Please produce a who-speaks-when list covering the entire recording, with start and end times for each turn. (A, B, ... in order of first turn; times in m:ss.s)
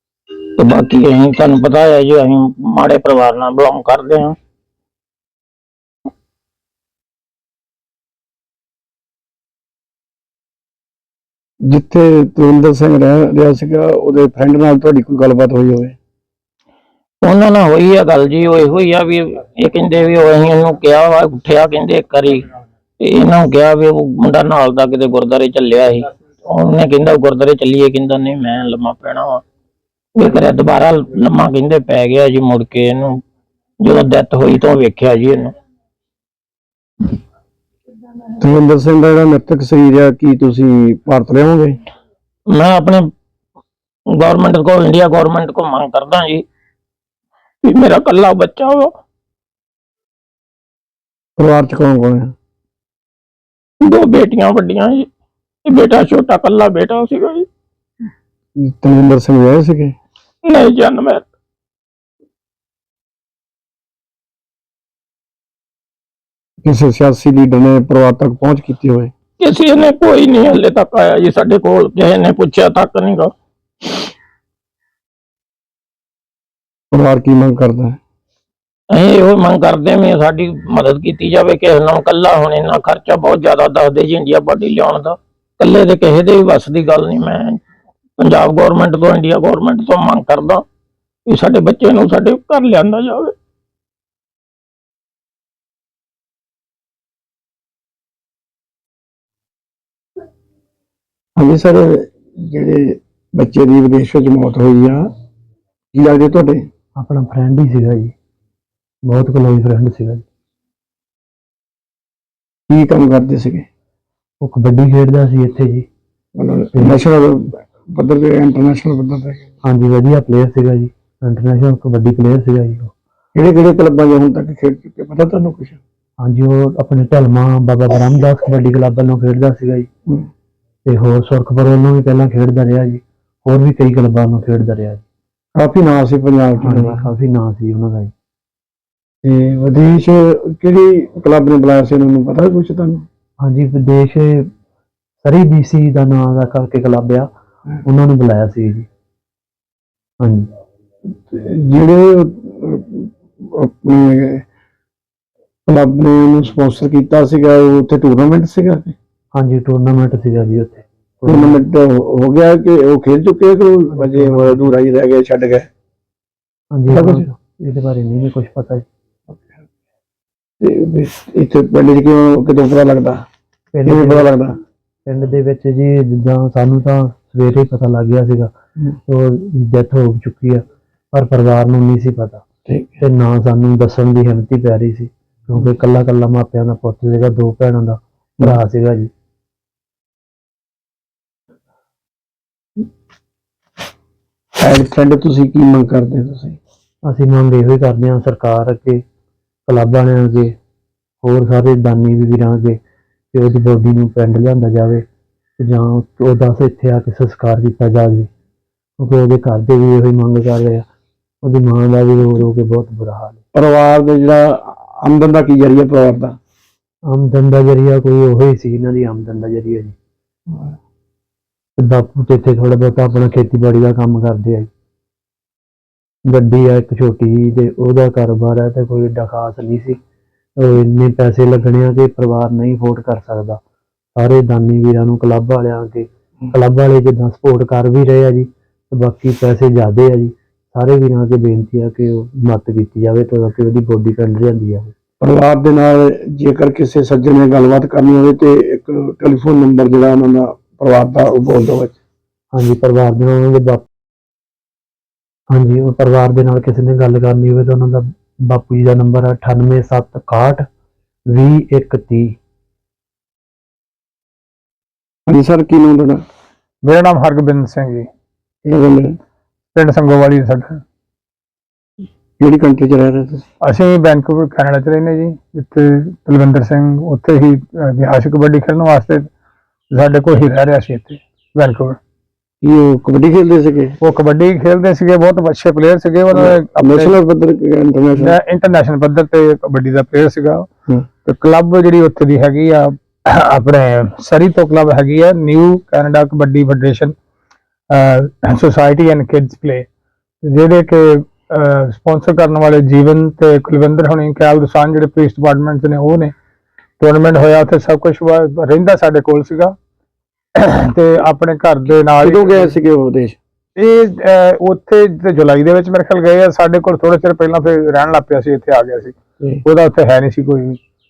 0:00.6-0:04.4 A
0:11.6-0:16.0 B
0:17.2-0:22.5 A
0:23.0-0:29.4 A
0:30.2-0:33.2 A
0:33.8-0:35.5 A
0:38.4-0:41.8 B
0:42.5-0:43.0 A
0:44.2-0:46.4 A
0:47.6-0:48.9 A
0:51.4-0:52.3 B
0:53.8-0:55.1 A
0:55.6-0:57.4 A
0:58.6-1:00.0 B
1:00.4-1:01.2 A
1:06.6-1:09.1 B
1:09.4-1:13.3 A
1:16.9-1:18.0 B
1:18.9-1:27.6 A
1:28.2-1:30.6 A
1:31.3-1:33.3 A
1:41.4-1:45.0 B
1:45.9-1:46.6 B
1:47.0-1:48.1 C
1:49.1-1:50.2 C
1:52.7-1:53.6 B
1:54.4-1:55.8 C
1:56.4-1:59.5 B
1:56.7-1:57.0 C
1:59.6-2:02.9 C
2:03.3-2:05.8 B
2:06.2-2:09.9 C
2:10.9-2:15.0 C
2:15.6-2:17.1 B
2:16.6-2:18.1 C
2:19.2-2:23.0 B
2:23.4-2:24.5 C
2:25.2-2:27.3 C
2:27.8-2:28.9 C
2:30.2-2:30.5 C
2:31.0-2:34.4 B
2:35.7-2:39.0 B
2:39.3-2:41.6 C
2:41.3-2:45.6 B
2:43.9-2:44.7 C
2:46.8-2:48.8 C
2:46.9-2:47.2 B
2:49.3-2:49.6 B
2:50.6-2:53.2 B
2:53.7-2:54.3 C
2:53.8-2:54.5 B
2:55.0-2:58.5 C
2:59.1-3:02.4 C
3:02.6-3:03.0 B
3:03.0-3:09.1 C
3:14.6-3:16.6 B
3:17.1-3:19.0 C
3:19.7-3:20.5 C
3:21.2-3:22.8 C
3:23.3-3:25.0 C
3:25.6-3:28.3 C
3:29.0-3:30.8 C
3:31.4-3:33.4 C
3:33.5-3:36.4 B
3:37.1-3:39.9 C
3:40.5-3:40.7 B
3:41.8-3:44.7 C
3:46.3-3:50.0 C
3:50.6-3:53.6 C
3:54.2-4:04.9 C
4:05.2-4:12.0 B
4:12.5-4:13.9 C
4:15.5-4:20.6 C
4:21.3-4:22.3 C
4:25.3-4:26.2 B
4:26.8-4:28.0 D
4:28.6-4:29.2 B
4:29.7-4:30.8 D
4:32.4-4:33.4 B
4:33.6-4:39.3 D
4:39.9-4:42.0 D
4:42.6-4:44.0 B
4:44.0-4:47.1 D
4:46.3-4:48.3 B
4:48.2-4:50.7 D
4:51.2-4:57.1 D
4:57.9-4:59.8 D
5:00.4-5:06.3 D
5:07.0-5:09.7 D
5:10.6-5:12.7 D
5:12.2-5:13.4 B
5:13.8-5:20.8 D